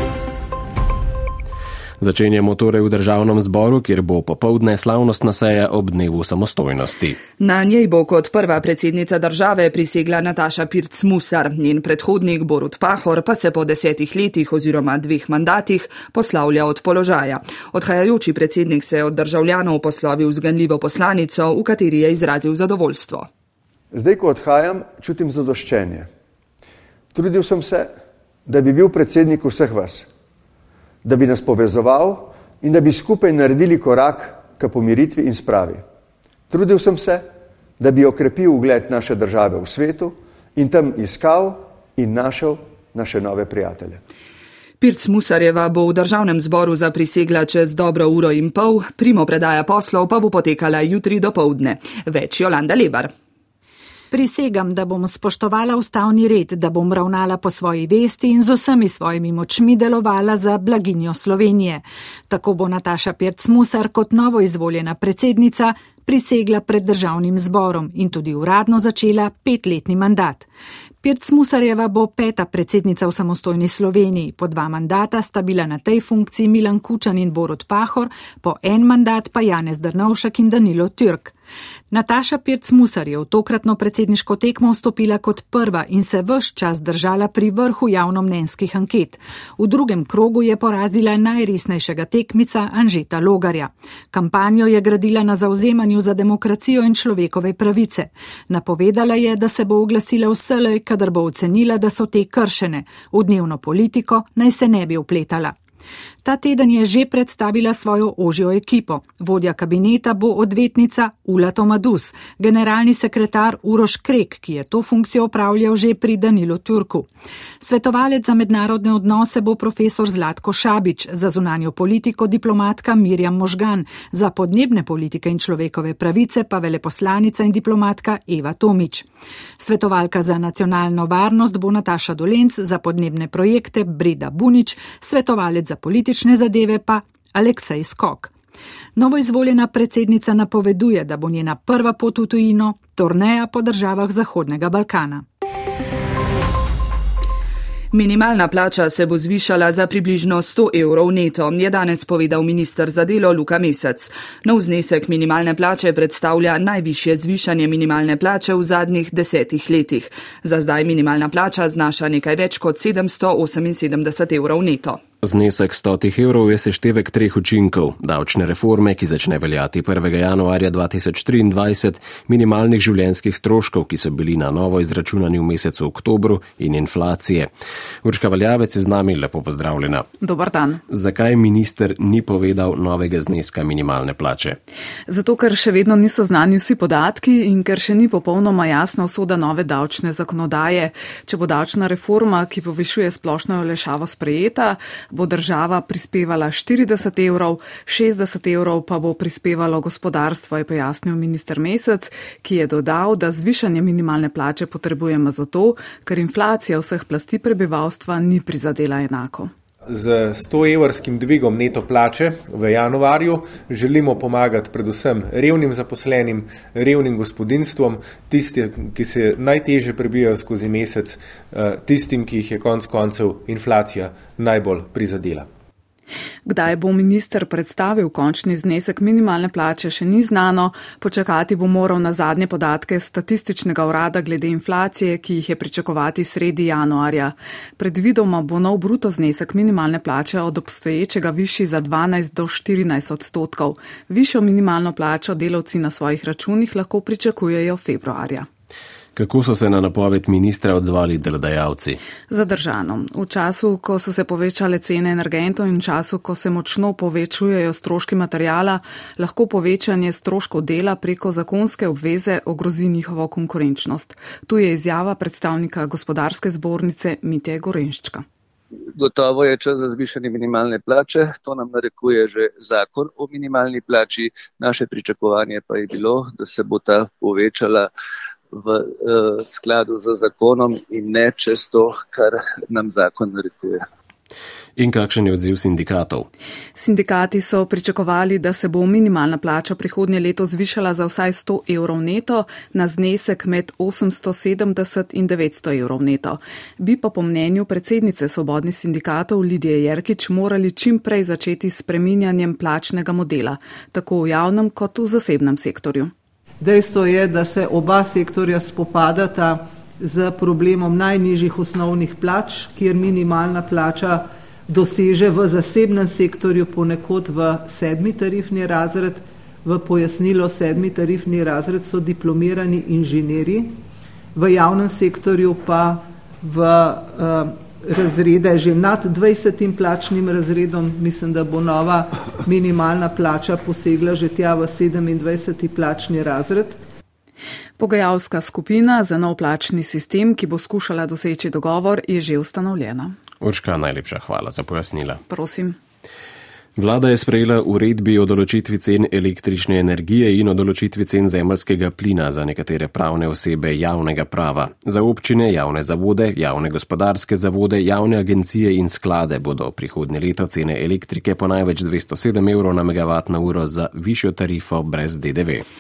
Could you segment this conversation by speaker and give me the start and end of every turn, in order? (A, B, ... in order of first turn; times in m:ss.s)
0:02.0-0:07.2 A
0:07.4-0:23.3 B
0:23.9-0:26.1 C
0:27.1-0:28.0 C
0:28.5-0:30.1 C
0:31.0-0:35.8 C
0:36.5-0:37.3 C
0:37.8-0:44.0 C
0:44.8-0:53.1 B
0:54.1-1:10.5 D
1:11.0-1:21.3 D
1:21.9-1:45.5 D
1:46.2-1:57.1 D
1:57.6-2:09.1 D
2:09.6-2:18.3 D
2:19.0-2:25.2 D
2:27.9-2:45.0 B
2:45.2-2:57.5 A
2:58.0-3:00.1 A
3:00.2-3:00.8 E
3:00.9-3:04.6 A
3:05.1-3:29.5 E
3:29.9-3:45.5 F
3:46.5-4:08.5 E
4:09.2-4:12.0 A
4:12.3-4:28.2 E
4:29.0-4:37.9 G
4:38.5-4:43.9 G
4:44.8-4:46.3 A
4:46.8-5:06.1 E
5:06.6-5:23.8 H
5:24.4-5:36.8 H
5:37.8-5:43.2 E
5:43.4-5:45.2 A
5:45.3-5:45.8 E
5:46.8-6:05.6 A